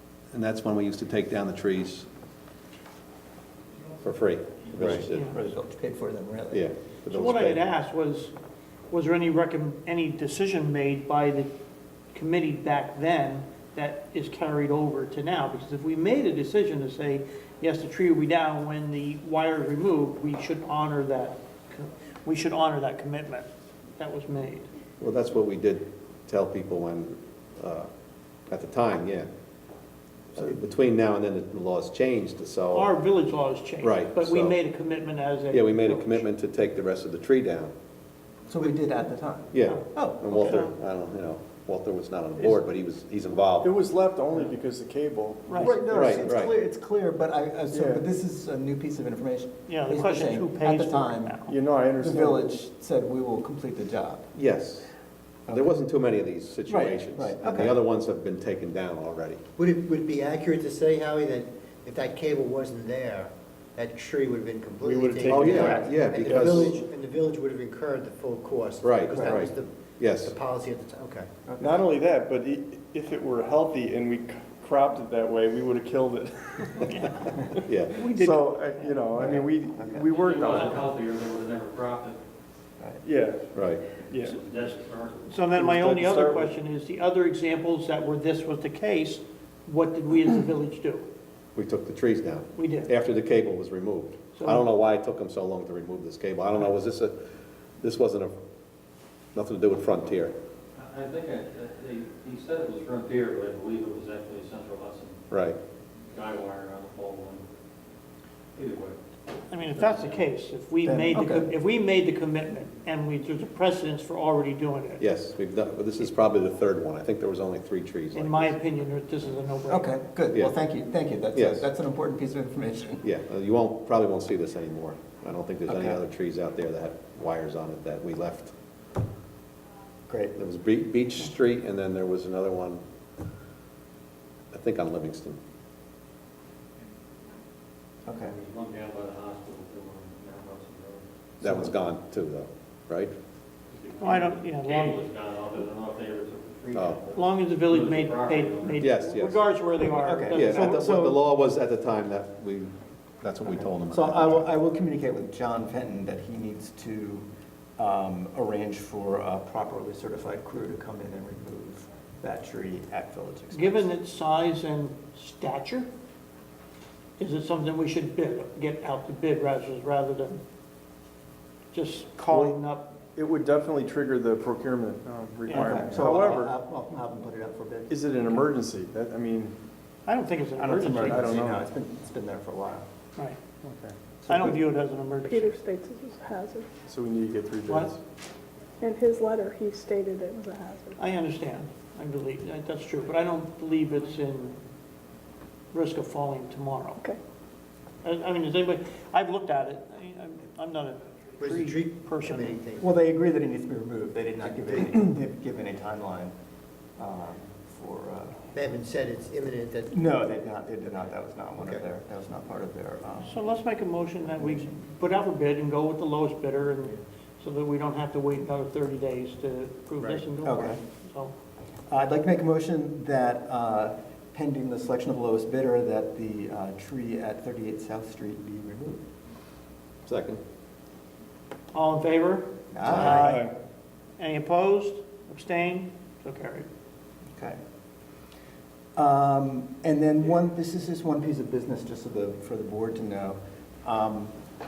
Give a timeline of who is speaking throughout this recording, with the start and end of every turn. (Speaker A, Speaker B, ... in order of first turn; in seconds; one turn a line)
Speaker A: 0.3-2.1
Speaker A: 4.0-5.2
Speaker B: 4.7-6.6
Speaker A: 6.5-7.6
Speaker C: 7.1-8.3
Speaker C: 8.9-11.5
Speaker C: 12.1-24.7
Speaker A: 25.0-27.9
Speaker A: 28.5-29.3
Speaker A: 30.3-32.9
Speaker C: 32.7-36.2
Speaker A: 33.8-34.6
Speaker A: 35.5-37.7
Speaker B: 38.5-40.6
Speaker A: 39.5-43.7
Speaker C: 39.7-40.7
Speaker D: 43.6-46.2
Speaker C: 45.5-45.7
Speaker B: 45.6-51.4
Speaker A: 45.9-46.5
Speaker D: 47.7-48.0
Speaker C: 49.7-51.5
Speaker D: 51.5-52.5
Speaker B: 52.0-54.2
Speaker A: 54.3-54.9
Speaker A: 55.5-59.4
Speaker B: 56.7-57.8
Speaker E: 59.6-71.3
Speaker D: 64.8-66.8
Speaker A: 65.2-66.7
Speaker A: 68.8-70.3
Speaker B: 71.4-71.8
Speaker D: 71.6-80.8
Speaker C: 76.9-77.4
Speaker A: 77.6-77.9
Speaker C: 77.9-79.0
Speaker B: 79.2-80.1
Speaker F: 80.1-82.2
Speaker D: 83.0-83.5
Speaker F: 83.5-85.3
Speaker A: 83.5-83.8
Speaker D: 84.1-84.4
Speaker C: 85.3-91.0
Speaker D: 85.5-86.5
Speaker A: 91.5-97.1
Speaker C: 92.5-92.9
Speaker C: 94.4-94.6
Speaker A: 97.8-98.3
Speaker A: 99.3-100.3
Speaker F: 100.8-105.2
Speaker A: 105.3-105.6
Speaker F: 106.1-107.4
Speaker F: 108.5-109.0
Speaker C: 109.5-115.0
Speaker F: 109.7-110.2
Speaker B: 110.8-111.5
Speaker A: 115.0-118.6
Speaker C: 118.1-119.9
Speaker B: 119.7-123.0
Speaker A: 121.3-121.6
Speaker A: 123.0-128.5
Speaker B: 125.7-126.0
Speaker B: 130.1-130.3
Speaker A: 130.4-132.8
Speaker A: 134.5-135.4
Speaker B: 138.1-138.4
Speaker F: 138.2-141.1
Speaker A: 141.4-143.1
Speaker B: 141.4-141.7
Speaker F: 143.7-148.9
Speaker C: 144.0-145.0
Speaker A: 146.7-147.0
Speaker C: 147.1-150.9
Speaker A: 148.8-149.4
Speaker B: 149.9-151.3
Speaker A: 150.3-154.5
Speaker B: 153.5-157.3
Speaker B: 157.8-163.9
Speaker C: 163.5-165.9
Speaker C: 167.2-170.4
Speaker C: 171.7-172.9
Speaker D: 173.2-176.5
Speaker C: 175.5-175.8
Speaker B: 175.5-178.0
Speaker D: 177.9-179.6
Speaker C: 180.1-181.3
Speaker B: 180.6-182.9
Speaker D: 181.1-181.6
Speaker D: 183.6-184.0
Speaker B: 184.2-184.6
Speaker C: 184.3-185.6
Speaker G: 185.2-186.7
Speaker D: 186.8-188.0
Speaker G: 188.8-191.0
Speaker C: 191.0-194.6
Speaker C: 195.7-197.0
Speaker C: 198.0-202.6
Speaker E: 201.4-202.9
Speaker B: 202.8-206.3
Speaker E: 204.4-204.9
Speaker B: 207.0-208.4
Speaker E: 208.5-209.9
Speaker B: 209.9-213.4
Speaker E: 211.6-211.8
Speaker C: 213.2-221.3
Speaker B: 214.3-214.9
Speaker B: 220.4-220.8
Speaker B: 221.9-229.0
Speaker A: 230.1-230.4
Speaker C: 231.7-233.5
Speaker B: 232.7-233.4
Speaker D: 233.0-233.5
Speaker C: 234.2-236.7
Speaker B: 239.0-244.3